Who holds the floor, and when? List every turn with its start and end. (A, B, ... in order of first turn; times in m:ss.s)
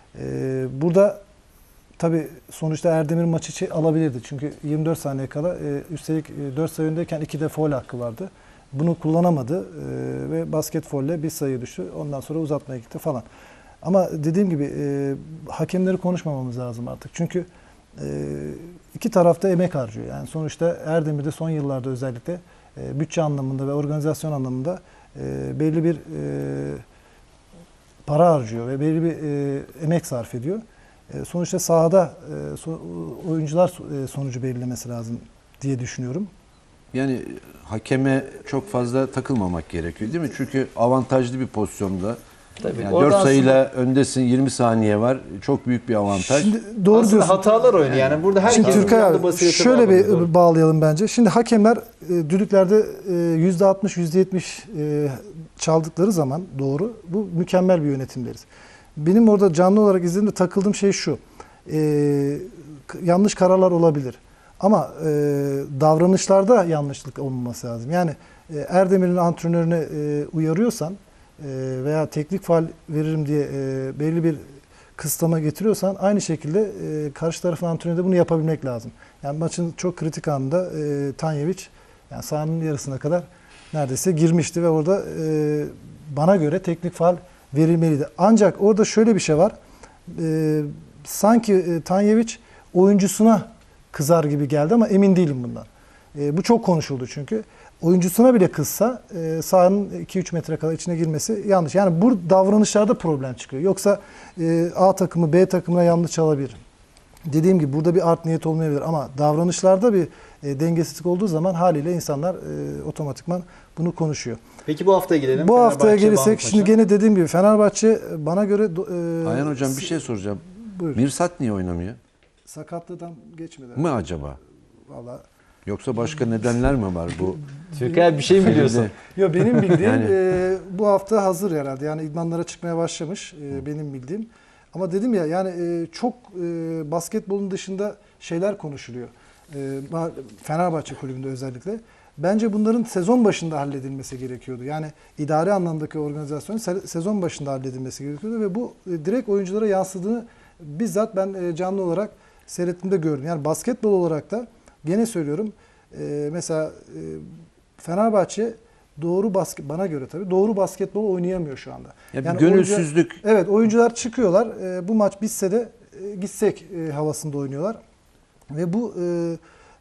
0:00.1-0:01.2 A
0:02.0-0:13.2 A
0:13.8-0:26.8 A
0:28.0-0:36.3 A
0:36.9-0:42.2 B
0:42.6-0:43.5 C
0:42.7-0:46.6 B
0:46.1-0:47.7 A
0:46.9-0:50.3 C
0:48.4-0:58.4 A
0:48.6-0:48.8 B
0:59.0-1:14.4 A
1:15.0-1:29.5 A
1:30.1-1:46.6 A
1:47.3-1:54.4 A
1:54.6-1:56.8 C
1:55.3-2:01.0 A
1:59.2-2:02.0 B
2:02.5-2:03.9 A
2:03.8-2:04.4 B
2:04.9-2:05.2 A
2:05.6-2:07.4 B
2:07.7-2:37.3 A
2:07.8-2:08.8 C
2:08.3-2:08.9 B
2:09.7-2:10.2 B
2:37.8-2:47.8 A
2:42.1-2:43.2 B
2:48.5-2:49.4 A